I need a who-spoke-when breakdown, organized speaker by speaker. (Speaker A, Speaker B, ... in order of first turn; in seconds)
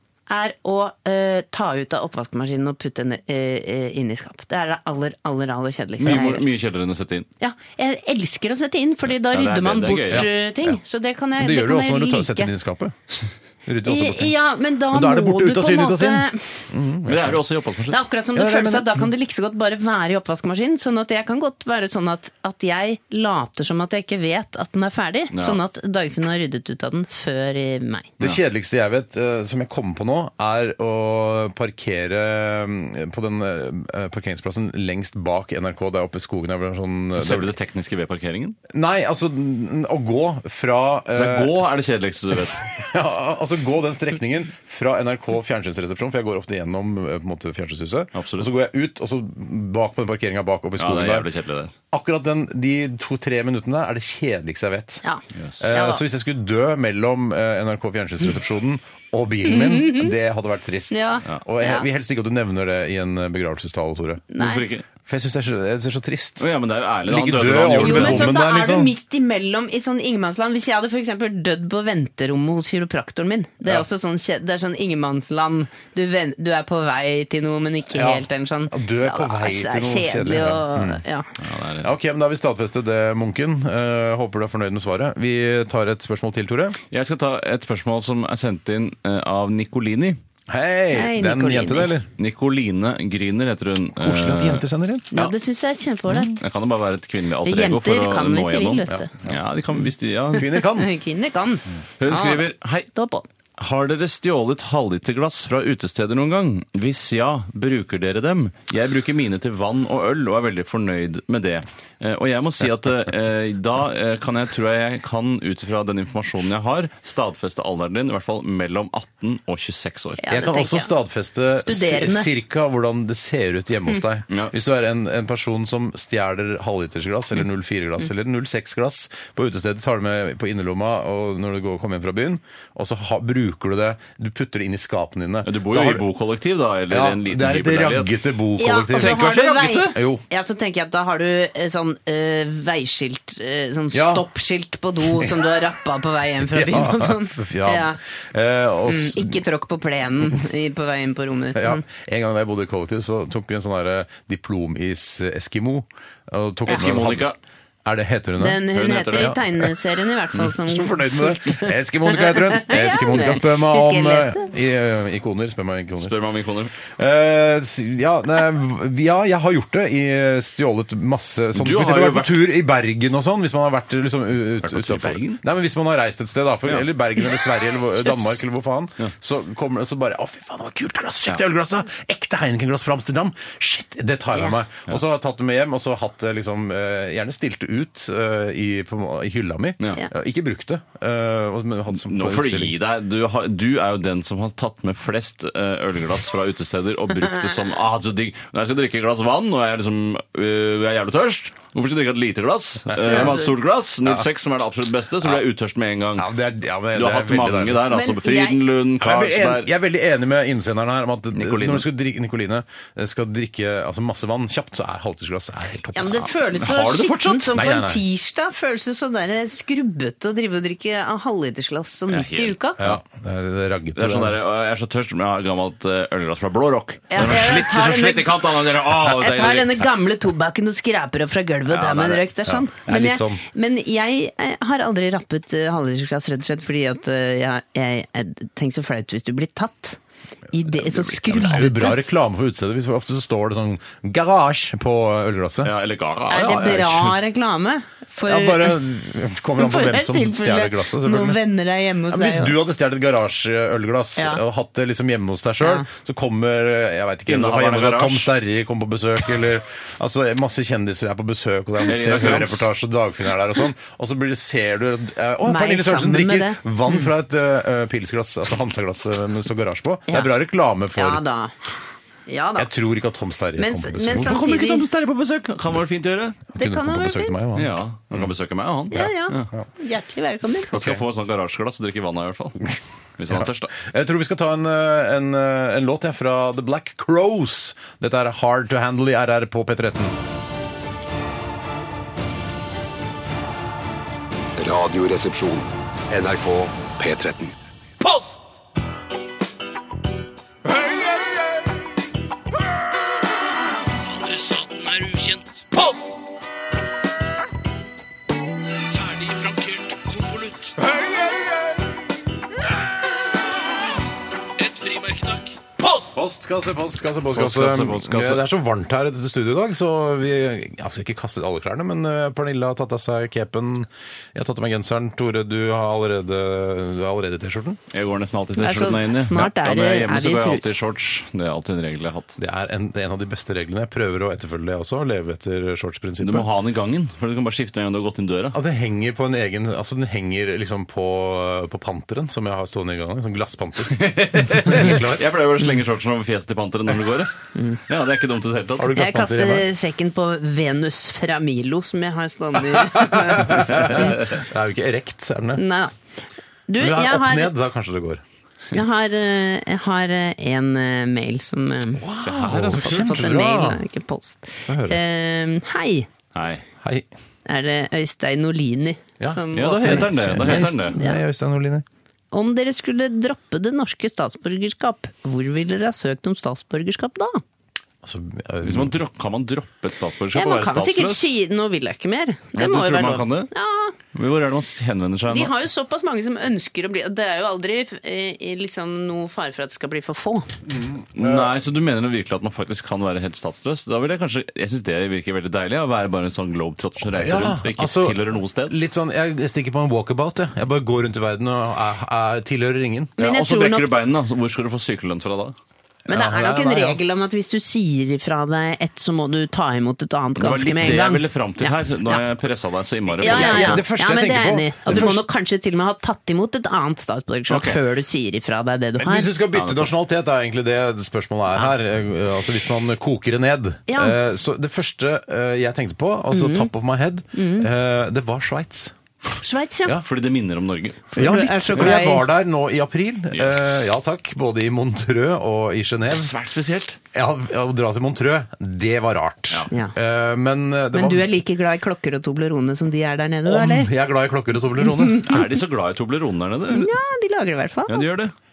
Speaker A: 0.3-6.5, 7.4-12.5, 13.8-16.6, 17.9-28.1, 55.0-56.0, 59.5-60.1, 60.9-61.8, 64.3-64.7, 67.8-81.3, 90.9-91.9, 95.1-96.4, 97.4-99.1, 100.6-103.2, 120.2-120.9, 121.6-122.3, 138.6-148.0, 148.9-151.8, 158.4-164.5, 203.1-203.5, 207.9-208.6, 215.9-222.8, 227.1-228.3, 229.0-240.0, 240.5-242.0, 246.3-248.8, 249.6-252.6, 255.6-255.9, 265.4-266.6, 270.9-271.5, 272.3-272.7, 273.6-274.8, 276.5-277.4, 278.9-280.7, 328.6-330.7, 347.5-347.8, 348.9-354.1, 355.6-355.9, 356.7-357.5, 358.7-362.0, 362.8-366.1, 367.4-371.2, 372.3-377.4, 380.3-383.9, 385.3-390.5, 403.2-403.9, 406.1-412.2, 413.2-419.3, 423.9-424.1, 426.3-426.7, 427.3-427.7, 429.4-430.0, 431.1-432.2, 440.9-443.9, 444.8-445.4, 446.7-448.1
Speaker B: 6.0-7.3, 9.2-10.3, 17.1-18.0, 25.3-25.6, 37.2-38.6, 41.1-42.7, 48.1-48.5, 50.8-51.7, 55.4-55.7, 64.4-64.9, 66.4-68.3, 81.4-81.9, 86.9-90.2, 92.2-95.3, 96.3-100.5, 102.0-102.9, 103.6-120.2, 135.4-138.2, 138.9-139.9, 156.7-157.4, 158.7-159.4, 166.0-166.7, 171.5-172.5, 174.6-175.4, 191.9-206.3, 206.9-209.7, 211.3-211.8, 216.5-217.5, 222.1-222.9, 223.9-229.9, 231.7-232.2, 240.9-241.6, 245.6-247.2, 257.3-258.3, 261.8-262.7, 274.1-276.5, 277.6-279.5, 280.7-283.7, 304.0-306.1, 308.9-310.8, 314.6-316.1, 317.3-318.4, 327.9-332.4, 336.2-338.6, 343.9-348.9, 362.1-363.3, 366.3-366.6, 369.5-370.9, 378.6-381.3, 382.5-383.5, 384.1-385.5, 391.1-398.7, 403.2-405.6, 410.4-413.8, 417.5-417.8, 419.5-419.9, 430.0-431.1, 433.3-433.9, 436.1-437.0, 445.2-446.9, 447.9-448.3
Speaker C: 10.1-10.8, 11.4-12.9, 13.7-14.3, 14.9-17.4, 18.3-19.0, 28.2-37.5, 38.7-41.5, 42.7-51.3, 51.9-55.0, 55.6-64.2, 65.0-66.5, 67.0-68.9, 77.9-81.0, 81.8-86.8, 90.5-92.1, 94.0-95.1, 98.9-99.4, 100.3-100.9, 120.3-136.0, 136.9-139.3, 139.9-140.2, 143.9-144.2, 146.5-149.4, 151.5-157.3, 157.8-159.4, 160.6-166.1, 166.8-192.7, 202.9-203.4, 206.2-207.9, 209.0-216.3, 217.5-218.0, 222.8-224.4, 232.4-233.4, 241.3-245.7, 248.2-251.4, 252.1-271.2, 272.6-274.4, 276.5-278.3, 278.9-279.6, 280.7-281.0, 283.3-290.1, 316.1-327.8, 332.4-336.5, 338.5-345.3, 348.8-349.7, 352.6-355.6, 356.8-358.2, 362.0-363.8, 364.7-365.0, 366.8-367.1, 369.2-371.8, 378.0-378.9, 390.7-391.5, 397.1-403.1, 406.1-407.0, 413.2-415.2, 419.0-428.9, 431.1-436.3, 437.1-441.3, 443.4-445.3
Speaker D: 294.6-297.5